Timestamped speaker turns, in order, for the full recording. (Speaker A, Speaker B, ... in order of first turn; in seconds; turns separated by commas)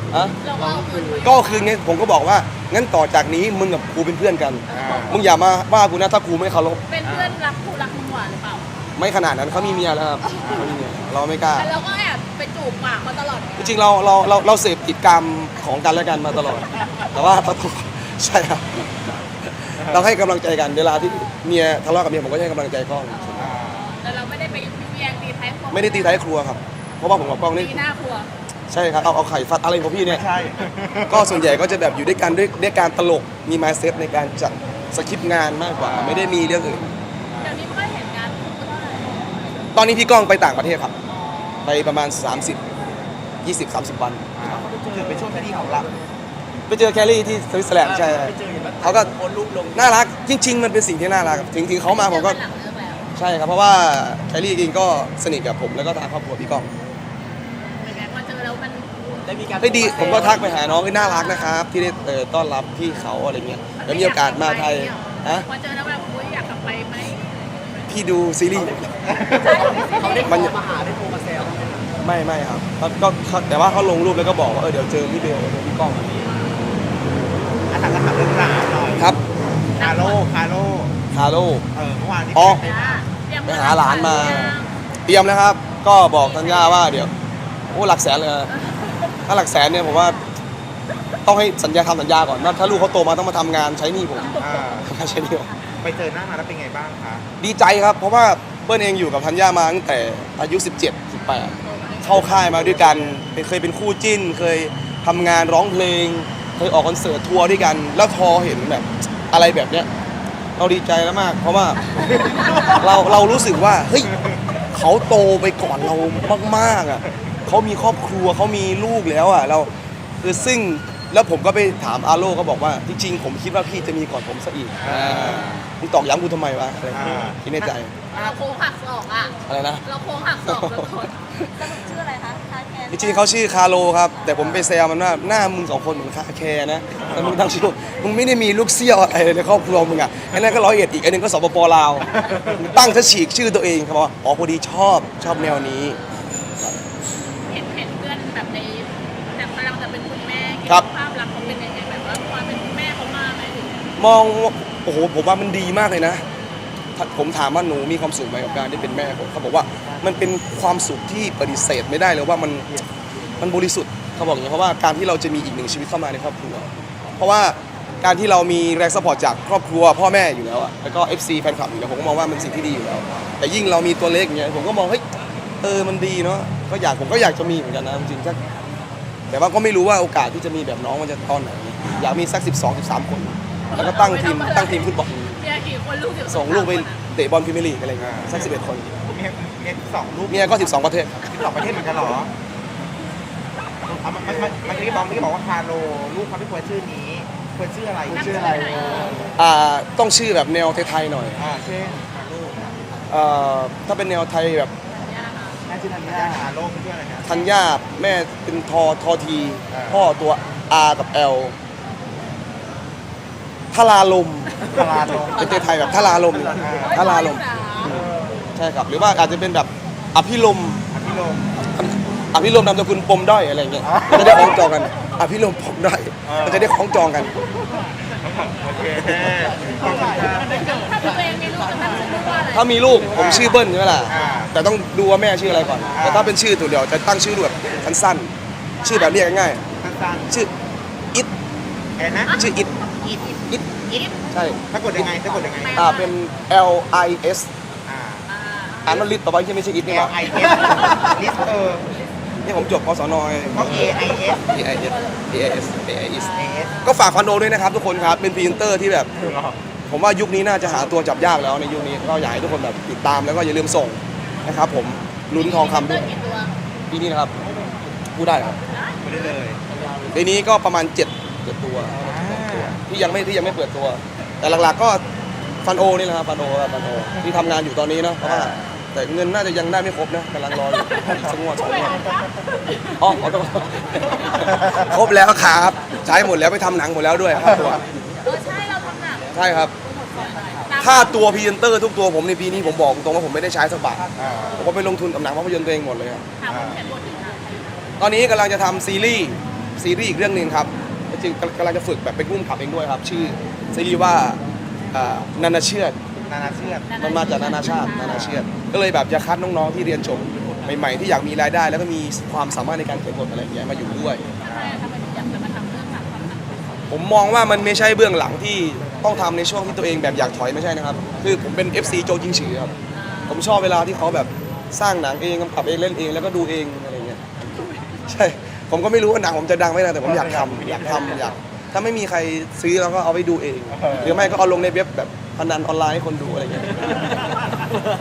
Speaker A: 0.1-0.4, Speaker B: 0.4-1.7, Speaker A: 1.2-6.8, Speaker B: 4.7-5.2, Speaker C: 4.7-5.2, Speaker B: 6.9-8.7, Speaker C: 7.0-7.4, Speaker A: 9.0-11.7, Speaker B: 10.2-10.7, Speaker C: 10.4-10.7, Speaker B: 11.5-13.8, Speaker A: 13.6-23.5, Speaker C: 19.8-20.1, Speaker B: 23.1-26.2, Speaker C: 23.4-23.8, Speaker A: 25.7-27.8, Speaker B: 27.5-28.3, Speaker A: 28.7-30.2, Speaker C: 30.0-31.5, Speaker A: 31.1-36.9, Speaker C: 35.8-36.4, Speaker C: 37.3-37.6, Speaker B: 37.4-39.6, Speaker A: 39.7-40.9, Speaker B: 41.0-42.0, Speaker A: 41.6-42.6, Speaker A: 43.4-44.3, Speaker C: 44.3-45.9, Speaker D: 44.4-45.1, Speaker A: 46.7-49.1, Speaker D: 47.8-49.8, Speaker A: 49.7-52.4, Speaker B: 51.8-53.1, Speaker A: 53.1-56.7, Speaker B: 57.6-59.0, Speaker D: 59.2-60.3, Speaker B: 59.5-61.5, Speaker A: 59.6-65.5, Speaker B: 63.8-68.0, Speaker A: 67.9-68.9, Speaker C: 69.0-69.9, Speaker B: 69.2-70.6, Speaker D: 69.9-71.9, Speaker A: 70.2-70.6, Speaker A: 72.0-76.2, Speaker B: 76.2-76.6, Speaker C: 77.7-79.2, Speaker C: 79.8-81.0, Speaker B: 79.8-80.2, Speaker A: 81.1-81.6, Speaker C: 81.7-83.0, Speaker A: 82.3-82.6, Speaker B: 82.4-84.7, Speaker A: 83.5-87.1, Speaker B: 86.0-86.9, Speaker A: 87.7-88.5, Speaker B: 88.5-89.2, Speaker A: 89.2-90.2, Speaker A: 91.2-95.5, Speaker B: 94.1-95.7, Speaker C: 94.4-94.9, Speaker C: 95.8-97.3, Speaker A: 97.4-109.9, Speaker B: 101.3-103.1, Speaker A: 110.6-114.1, Speaker B: 112.0-112.8, Speaker C: 112.3-112.8, Speaker A: 114.7-119.7, Speaker A: 120.2-127.9, Speaker C: 124.8-125.6, Speaker B: 124.9-125.6, Speaker C: 126.9-127.4, Speaker B: 127.6-133.2, Speaker A: 129.5-129.8, Speaker A: 130.4-131.5, Speaker A: 132.9-146.0, Speaker C: 137.0-137.4, Speaker C: 142.2-142.6, Speaker B: 147.4-153.9, Speaker A: 154.0-156.2, Speaker A: 156.9-162.7, Speaker A: 163.4-175.0, Speaker A: 175.6-178.4, Speaker A: 179.3-185.4, Speaker B: 183.7-187.0, Speaker A: 186.3-188.9, Speaker C: 188.0-192.3, Speaker A: 190.3-191.2, Speaker C: 193.8-199.3, Speaker B: 198.1-199.2, Speaker A: 199.3-201.4, Speaker C: 201.3-202.7, Speaker A: 203.1-204.7, Speaker B: 204.9-205.6, Speaker C: 205.7-207.5, Speaker A: 207.2-211.6, Speaker C: 209.7-210.1, Speaker A: 213.7-214.7, Speaker C: 214.6-215.6, Speaker A: 215.3-220.8, Speaker B: 215.4-216.2, Speaker C: 216.5-217.0, Speaker B: 216.8-218.0, Speaker C: 220.9-221.6, Speaker A: 221.6-227.3, Speaker C: 223.8-224.6, Speaker C: 226.2-226.8, Speaker C: 228.2-230.6, Speaker B: 230.4-233.4, Speaker A: 232.5-239.6, Speaker C: 233.1-234.5, Speaker C: 235.9-236.3, Speaker B: 238.8-239.2, Speaker C: 239.8-240.5, Speaker C: 242.0-242.5, Speaker A: 242.3-242.7, Speaker B: 242.3-243.3, Speaker C: 243.0-244.1, Speaker A: 244.3-245.1, Speaker C: 244.7-245.9, Speaker B: 245.6-246.2, Speaker A: 245.7-247.5, Speaker C: 247.8-248.3, Speaker B: 248.3-249.1, Speaker A: 248.8-250.7, Speaker C: 249.8-251.9, Speaker B: 250.7-251.1, Speaker A: 252.4-259.1, Speaker C: 253.5-254.4, Speaker B: 254.6-255.5, Speaker B: 256.1-257.1, Speaker C: 256.3-256.7, Speaker C: 259.1-259.6, Speaker A: 259.9-266.1, Speaker B: 265.3-266.5, Speaker A: 266.9-267.3, Speaker A: 268.1-268.6, Speaker B: 268.6-269.1, Speaker C: 269.0-269.6, Speaker A: 270.1-275.0, Speaker C: 271.9-272.8, Speaker A: 275.6-282.0, Speaker C: 278.2-278.7, Speaker B: 280.9-282.9, Speaker A: 283.0-287.8, Speaker C: 284.6-284.8, Speaker B: 288.2-291.5, Speaker A: 289.3-289.7, Speaker A: 290.8-294.0, Speaker C: 294.1-294.7, Speaker A: 294.6-296.2, Speaker B: 296.4-297.9, Speaker C: 296.4-296.8, Speaker A: 298.0-304.4, Speaker A: 304.9-305.9, Speaker C: 306.2-307.0, Speaker B: 306.9-308.3, Speaker A: 307.0-314.2, Speaker C: 307.9-308.4, Speaker B: 314.4-316.8, Speaker C: 314.4-314.8, Speaker A: 316.9-322.7, Speaker B: 322.9-323.4, Speaker A: 323.3-327.2, Speaker A: 328.1-337.1, Speaker C: 330.0-331.4, Speaker C: 333.7-334.3